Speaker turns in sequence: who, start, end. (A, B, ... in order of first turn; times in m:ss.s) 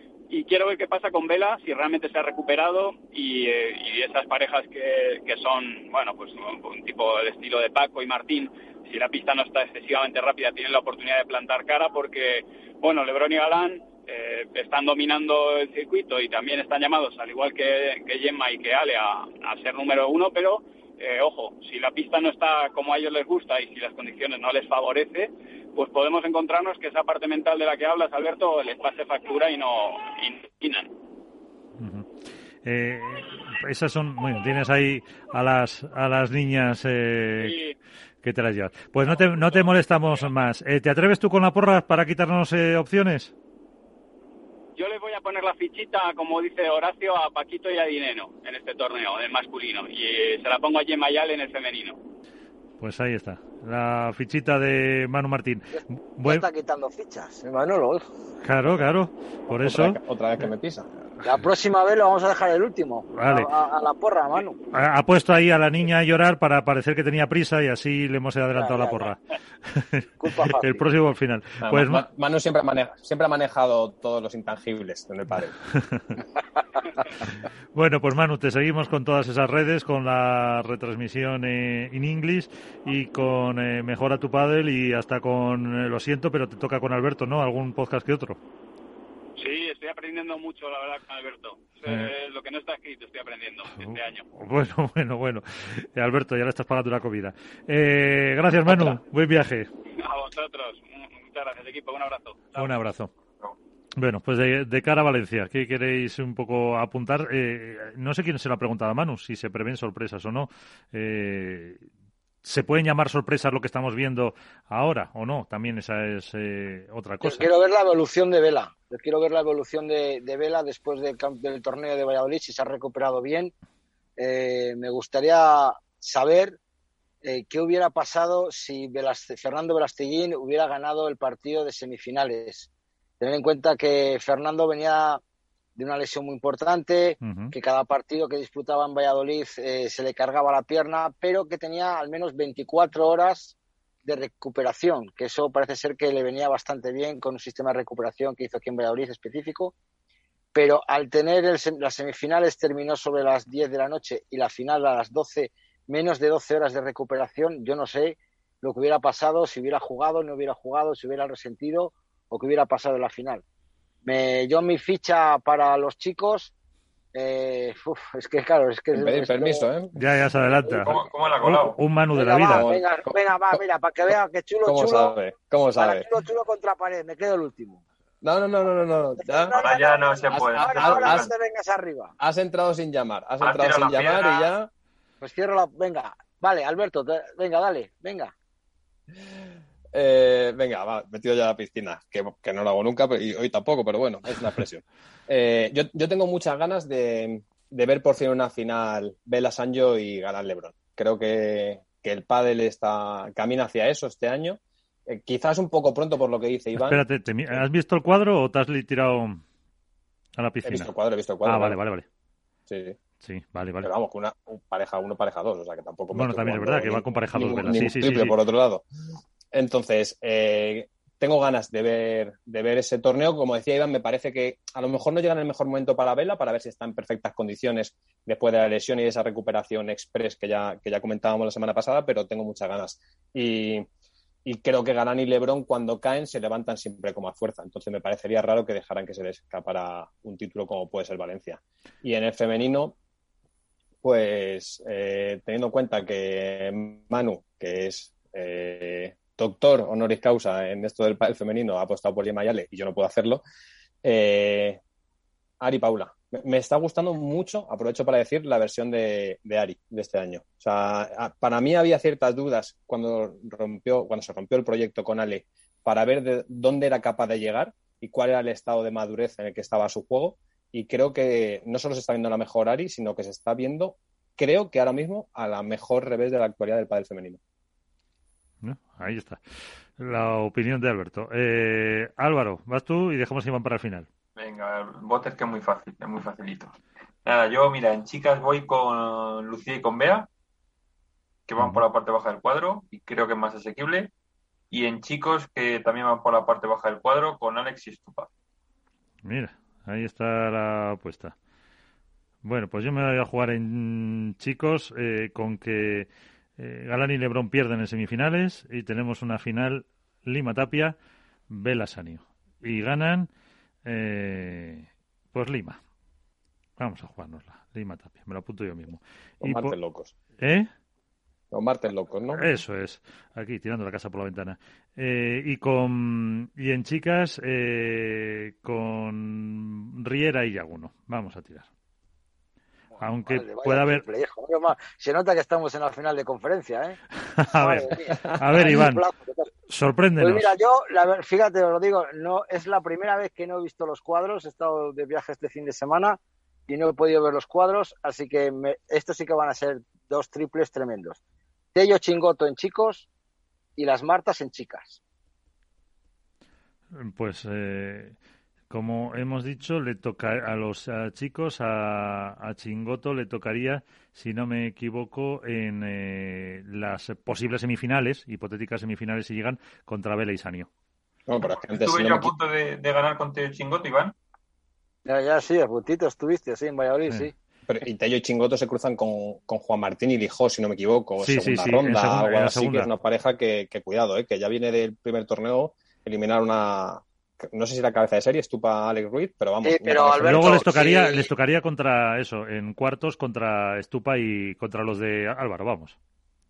0:00.3-0:30.9 A
0:31.8-0:32.1 B
0:32.6-0:37.6 B
0:37.4-0:37.8 A
0:38.2-0:43.3 B
0:39.0-0:40.3 A
0:44.8-0:52.0 A
0:52.8-0:56.4 B
0:55.7-0:58.1 C
0:58.4-1:00.0 B
0:59.5-1:00.9 D
1:01.2-1:04.6 C
1:03.1-1:03.5 B
1:04.7-1:12.0 B
1:08.6-1:09.1 C
1:10.2-1:10.8 C
1:11.6-1:15.5 D
1:15.7-1:16.1 B
1:17.8-1:28.4 B
1:29.4-1:34.2 A
1:31.8-1:32.1 B
1:33.8-1:39.7 B
1:40.0-1:42.7 A
1:42.6-1:43.1 B
1:44.0-1:51.8 B
1:52.4-1:57.5 B
1:57.2-2:03.5 C
2:04.2-2:06.6 C
2:07.2-2:12.7 C
2:13.2-2:15.2 C
2:15.8-2:29.7 C
2:17.2-2:17.5 B
2:30.6-2:43.4 C
2:44.0-2:46.5 C
2:47.1-2:49.6 C
2:48.9-2:50.0 D
2:50.0-2:52.7 B
2:50.8-2:51.8 E
2:52.1-2:55.2 C
2:52.5-2:53.0 D
2:54.6-2:56.1 D
2:55.8-2:57.8 C
2:58.2-2:59.6 D
2:59.2-3:02.1 C
2:59.6-3:01.3 E
3:00.4-3:01.3 D
3:02.2-3:04.7 D
3:03.4-3:04.5 E
3:05.2-3:08.3 C
3:09.9-3:27.6 D
3:26.8-3:29.4 B
3:30.4-3:30.9 B
3:30.6-3:31.8 D
3:31.4-3:32.1 B
3:32.7-3:33.0 D
3:33.2-3:33.9 B
3:33.8-3:38.8 D
3:36.1-3:38.4 B
3:39.5-3:53.9 D
3:54.4-4:03.0 D
4:04.0-4:13.4 D
4:14.0-4:14.8 D
4:15.6-4:37.4 D
4:38.6-4:39.4 B
4:40.0-4:44.1 B
4:44.4-4:46.7 E
4:47.3-4:50.3 E
4:51.5-4:54.1 E
4:54.7-4:58.3 E
4:59.2-5:01.4 B
5:02.4-5:11.0 B
5:11.5-5:13.3 B
5:13.8-5:15.8 B
5:16.8-5:19.8 B
5:19.4-5:20.1 D
5:20.4-5:20.7 B
5:21.5-5:22.4 D
5:22.3-5:31.7 B
5:32.9-5:39.5 C
5:33.0-5:34.0 B
5:37.3-5:39.1 B
5:39.7-5:40.5 B
5:40.2-5:51.2 C
5:51.8-5:53.1 C
5:53.8-5:55.0 C
5:56.9-5:58.2 B
5:58.7-6:10.7 B
6:11.3-6:12.3 D
6:11.7-6:14.1 E
6:15.1-6:17.3 C
6:17.7-6:30.7 D
6:21.2-6:22.9 B
6:29.6-6:31.3 C
6:30.2-6:36.0 B